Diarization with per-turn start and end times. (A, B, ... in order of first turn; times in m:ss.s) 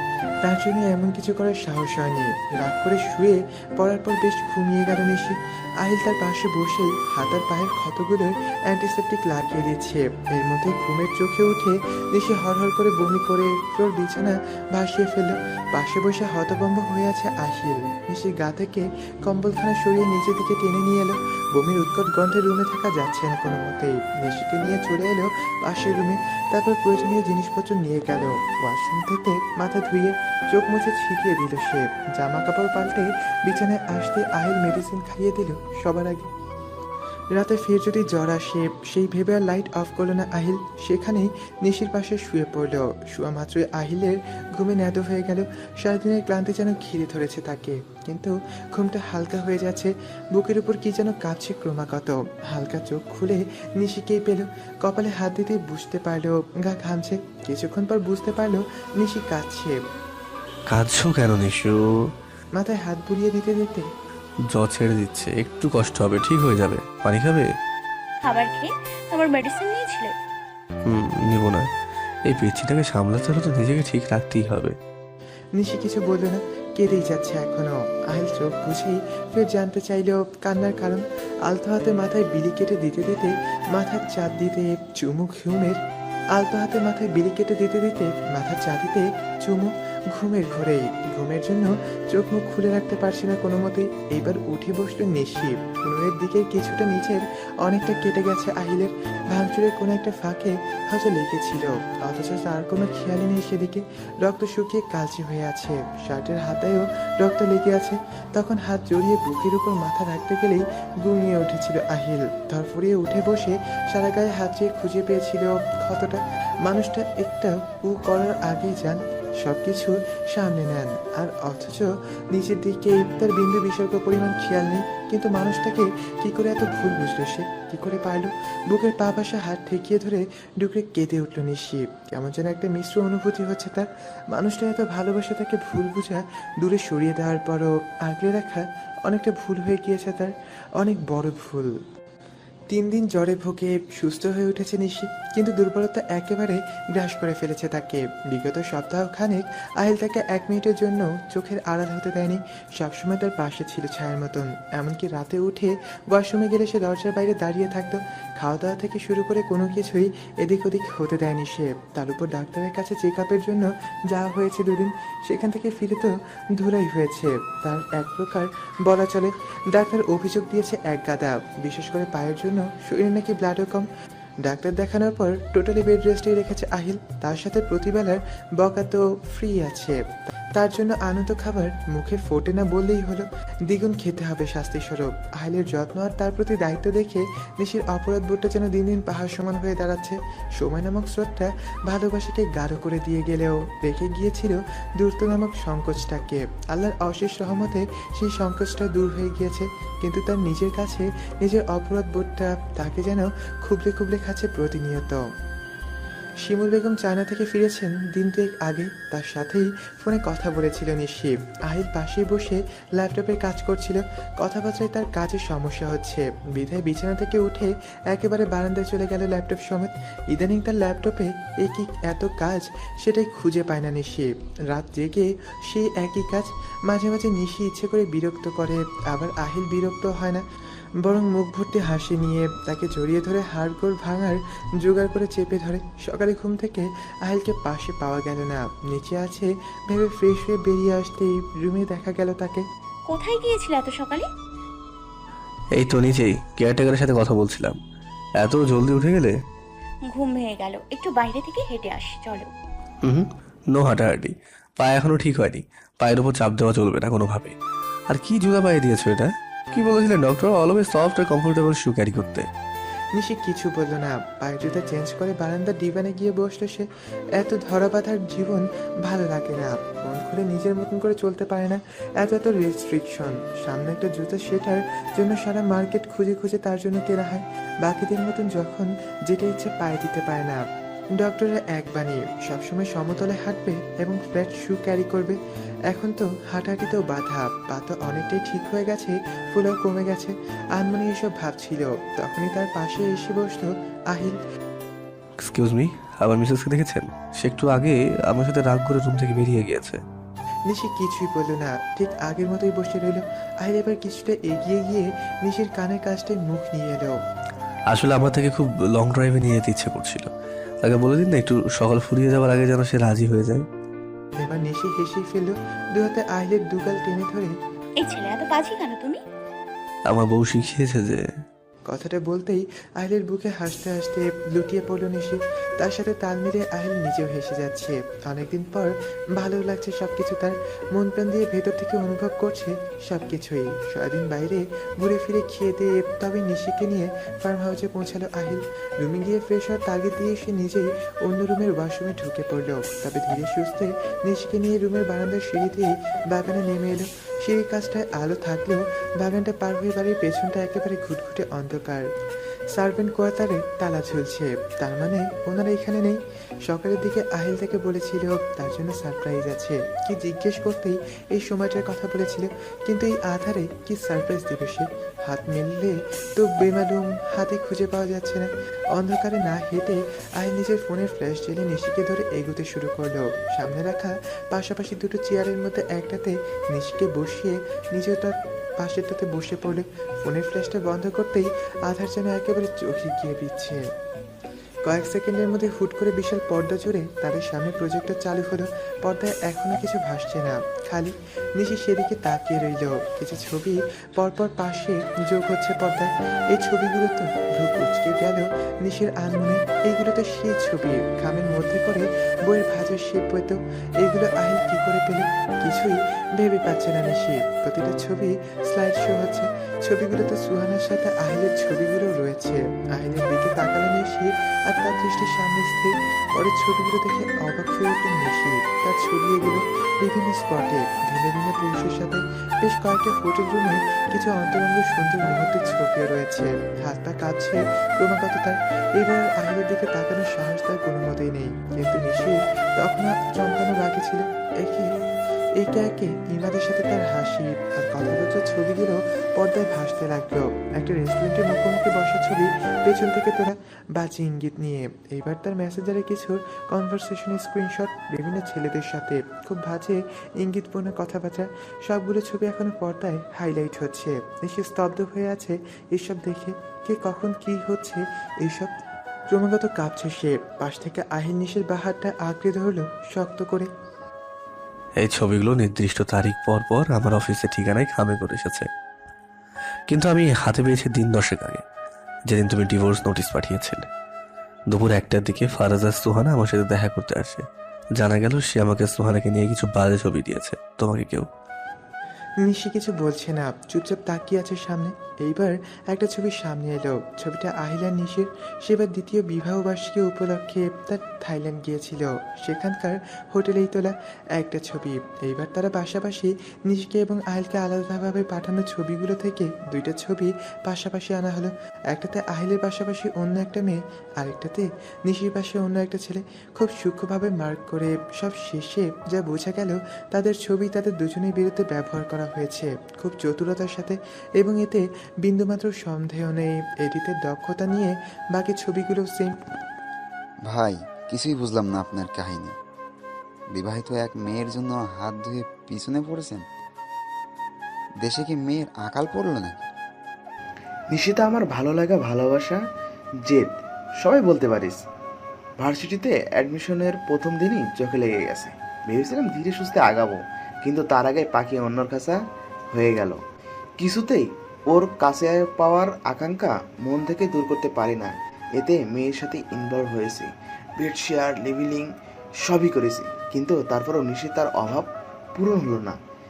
0:00.4-0:36.3 A
0:37.3-0:59.8 A
1:00.7-1:02.1 B
1:02.6-1:03.9 A
1:04.5-1:07.5 B
1:08.2-1:10.1 C
1:10.9-1:11.7 B
1:12.2-1:14.8 B
1:15.6-1:25.8 A
1:26.4-2:21.8 A
2:22.7-2:53.9 A
2:54.4-3:25.2 A
3:26.4-3:50.4 A
3:51.0-4:02.6 A
4:03.1-4:04.3 C
4:05.8-4:07.8 B
4:08.4-4:09.4 B
4:10.1-4:12.5 C
4:13.0-4:17.6 B
4:18.1-4:22.5 B
4:23.2-4:26.9 A
4:27.4-4:40.6 A
4:41.2-4:54.4 A
4:55.4-5:00.0 B
5:00.7-5:07.2 A
5:07.9-5:10.3 B
5:10.8-5:13.7 B
5:14.4-5:17.6 A
5:18.0-5:19.2 C
5:20.1-5:21.3 B
5:21.9-5:52.1 A
5:52.7-6:23.9 A
6:24.8-7:15.0 A
7:15.6-7:38.7 A
7:39.3-7:43.7 A
7:45.0-7:48.7 B
7:49.9-7:51.6 B
7:52.3-7:53.9 B
7:54.7-8:01.3 B
8:02.4-8:39.4 A
8:40.4-8:42.6 D
8:43.5-8:46.4 D
8:48.0-8:49.7 D
8:50.9-8:52.6 E
8:53.2-8:53.5 E
8:54.0-8:54.8 E
8:55.6-9:02.2 E
9:02.7-9:03.2 E
9:03.8-9:16.0 E